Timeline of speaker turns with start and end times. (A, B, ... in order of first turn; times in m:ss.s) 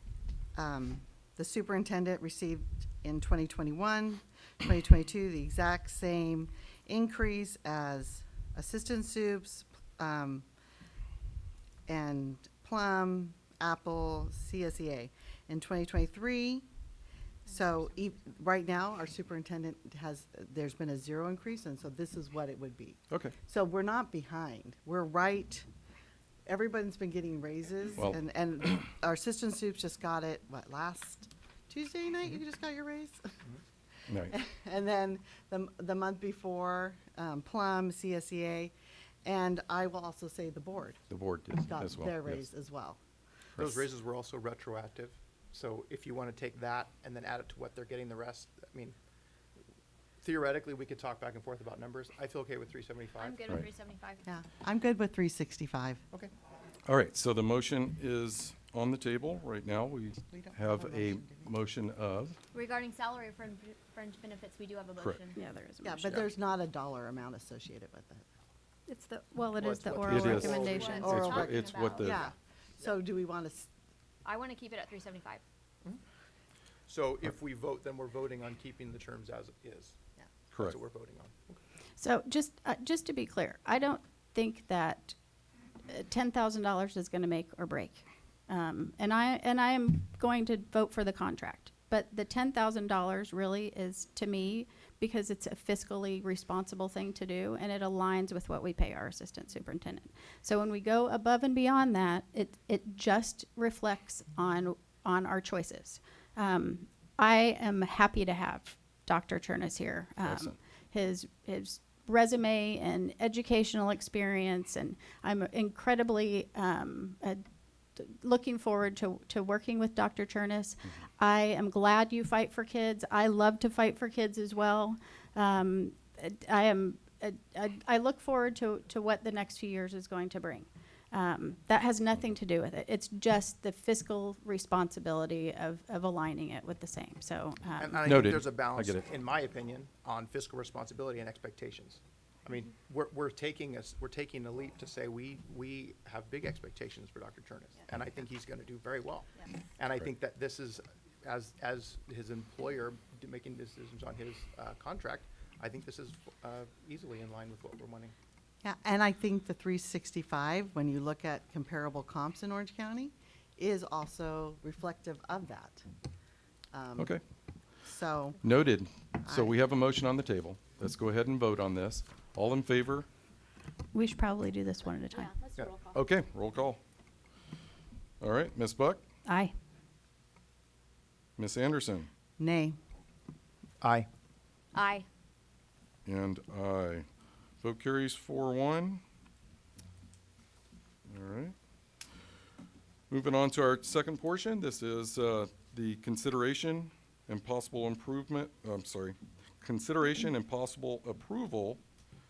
0:00.6-0:10.4 A
0:11.9-0:16.6 A
0:17.5-0:25.7 A
0:26.5-0:33.4 A
0:34.3-0:38.7 A
0:39.2-0:41.0 A
0:41.1-0:42.5 B
0:41.6-0:43.0 A
0:43.6-0:43.9 B
0:43.6-0:49.0 C
0:50.2-0:53.4 C
0:53.2-0:54.2 D
0:54.3-0:56.0 A
0:56.9-1:02.4 B
1:00.3-1:01.5 A
1:02.5-1:05.4 D
1:05.4-1:06.2 E
1:05.8-1:08.3 A
1:08.9-1:11.4 E
1:09.6-1:11.6 C
1:10.1-1:12.3 B
1:10.4-1:12.2 D
1:11.0-1:11.4 A
1:12.0-1:13.7 A
1:14.2-1:15.4 D
1:16.9-1:20.0 C
1:20.6-1:21.6 C
1:22.0-1:25.2 E
1:25.9-1:57.4 E
1:50.2-1:50.6 B
1:58.0-2:18.1 E
2:17.8-2:38.1 C
2:18.0-2:19.0 B
2:38.6-2:45.8 A
2:46.7-2:47.1 A
2:47.8-2:48.4 A
2:48.4-2:53.1 B
2:49.2-2:49.5 A
2:53.9-2:55.3 E
2:54.9-2:56.0 D
2:55.9-2:56.8 B
2:58.2-2:59.0 B
2:59.3-2:59.5 E
3:01.4-3:02.1 B
3:02.4-3:02.8 A
3:03.8-3:04.1 C
3:04.7-3:05.1 D
3:06.0-3:07.1 B
3:07.6-3:09.0 B
3:11.1-3:11.6 B
3:13.1-3:21.8 B